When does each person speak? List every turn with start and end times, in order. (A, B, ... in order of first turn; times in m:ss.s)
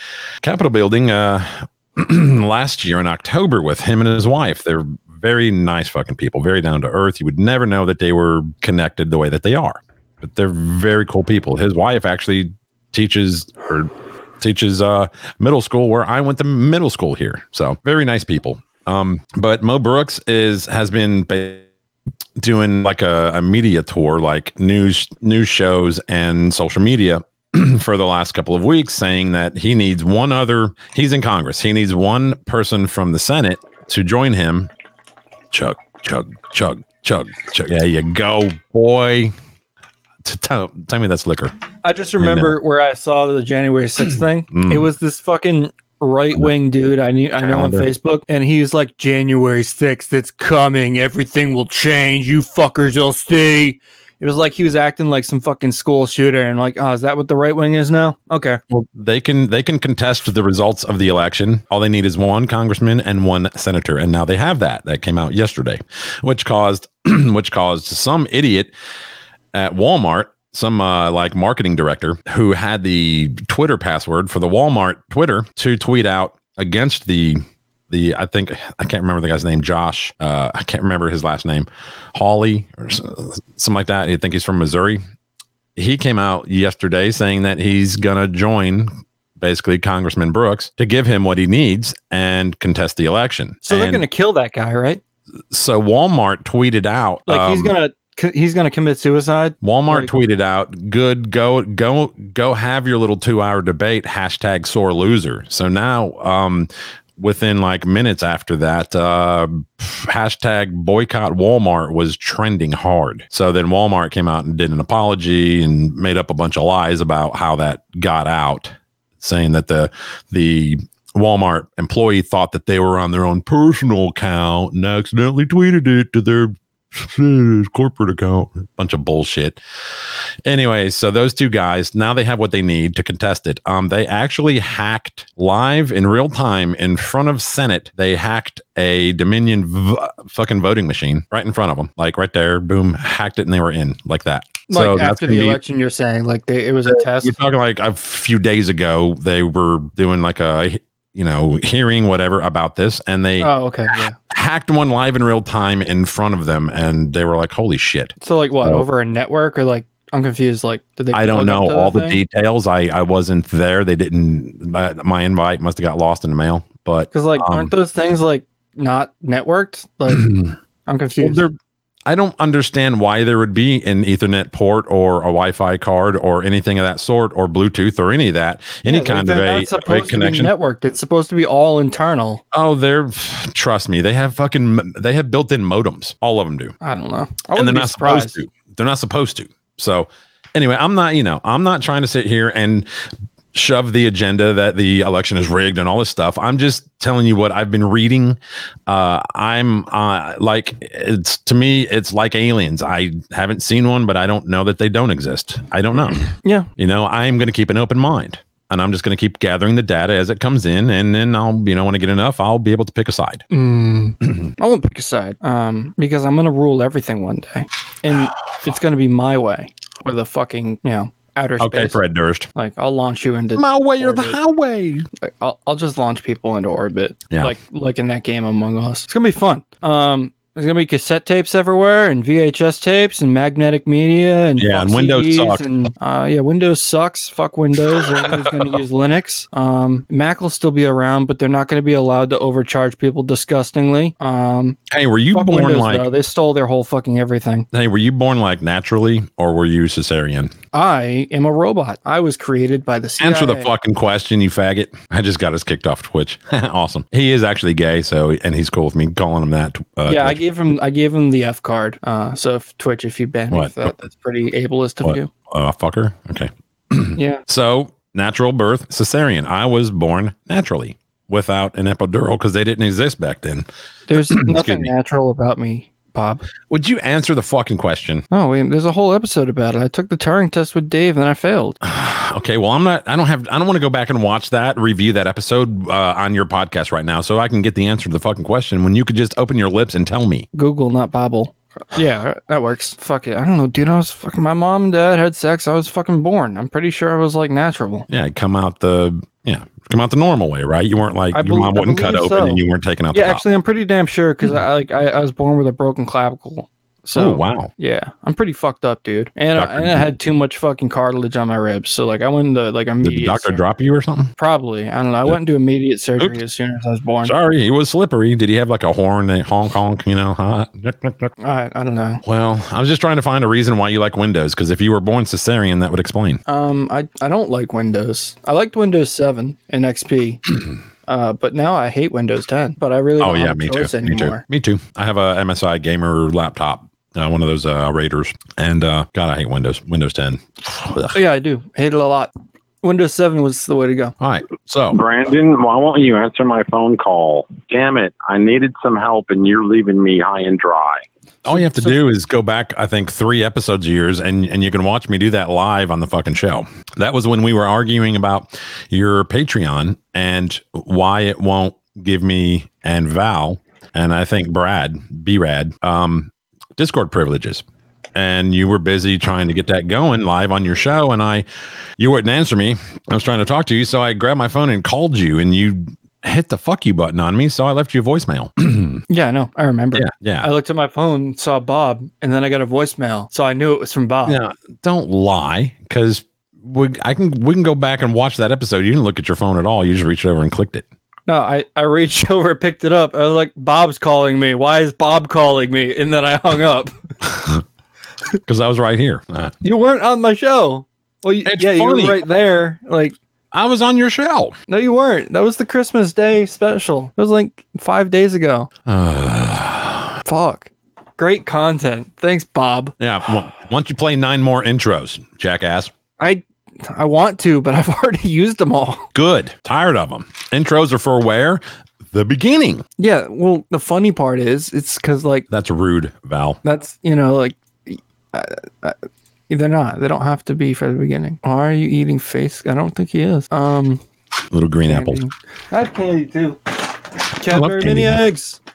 0:00.4-0:21.6 A
0:22.4-0:34.7 A
0:35.5-0:39.3 A
0:40.2-0:41.5 A
0:41.8-0:58.6 B
0:42.2-0:42.6 A
0:44.5-0:44.9 A
0:47.4-0:47.9 A
0:58.7-1:08.7 A
1:09.5-1:25.0 A
1:25.8-1:34.0 A
1:33.6-1:35.0 B
1:35.5-1:37.7 A
1:37.3-1:40.1 B
1:39.6-2:09.6 A
2:10.4-2:25.6 A
2:24.7-2:27.3 B
2:26.9-2:33.5 A
2:33.4-2:34.2 B
2:34.3-2:38.8 A
2:38.2-2:42.2 B
2:41.1-2:47.7 A
2:47.1-2:50.3 B
2:50.1-2:50.5 A
2:50.9-2:51.4 B
2:51.2-3:00.5 A
2:58.8-3:02.4 B
3:02.5-3:06.7 A
3:06.8-3:08.4 B
3:07.5-3:12.9 A
3:13.5-3:26.2 A
3:26.3-3:26.7 B
3:26.8-3:33.4 A
3:33.5-3:42.0 B
3:41.6-3:42.5 A
3:42.5-3:44.4 B
3:43.5-3:45.1 A
3:45.2-4:04.8 B
3:47.3-3:47.6 A
3:54.6-3:55.6 A
3:58.1-3:58.7 A
4:04.9-4:06.1 A
4:05.3-4:07.7 B
4:07.7-4:10.5 A
4:10.7-4:13.7 B
4:13.2-4:20.4 A
4:20.1-4:25.3 B
4:23.5-4:23.9 A
4:25.0-4:33.7 A
4:27.2-4:27.4 B
4:34.1-4:36.4 B
4:34.2-4:34.9 A
4:36.7-4:38.2 A
4:38.3-4:41.8 B
4:41.8-4:50.4 A
4:50.5-4:58.0 B
4:58.1-5:03.4 A
5:01.3-5:02.6 B
5:03.1-5:13.6 B
5:07.2-5:07.7 A
5:09.6-5:10.1 A
5:13.0-5:14.3 A
5:14.4-5:17.3 B
5:17.2-5:21.3 A
5:21.4-5:22.2 B
5:22.2-5:26.4 A
5:26.5-5:30.4 B
5:31.1-5:34.4 B
5:33.2-5:41.2 A
5:41.1-5:42.3 B
5:42.8-5:44.1 B
5:44.2-5:45.0 A
5:44.9-5:51.0 C
5:51.4-6:07.6 A
5:51.4-5:52.0 B
6:08.1-6:11.4 A
6:12.0-6:19.0 A
6:19.1-6:24.4 B
6:19.9-6:20.5 A
6:24.2-6:30.8 A
6:31.3-6:36.9 B
6:38.4-6:39.5 A
6:39.6-6:43.1 B
6:41.4-6:42.2 A
6:43.5-6:44.6 A
6:44.7-6:48.7 B
6:48.9-6:50.1 A
6:50.2-6:52.9 B
6:53.0-6:55.9 A
6:56.2-6:59.1 B
6:59.1-7:02.8 A
7:03.0-7:05.5 B
7:05.5-7:06.6 A
7:06.6-7:09.0 B
7:09.5-7:14.0 B
7:14.5-7:15.2 A
7:14.9-7:16.6 B
7:17.4-7:18.6 B
7:17.5-7:18.2 A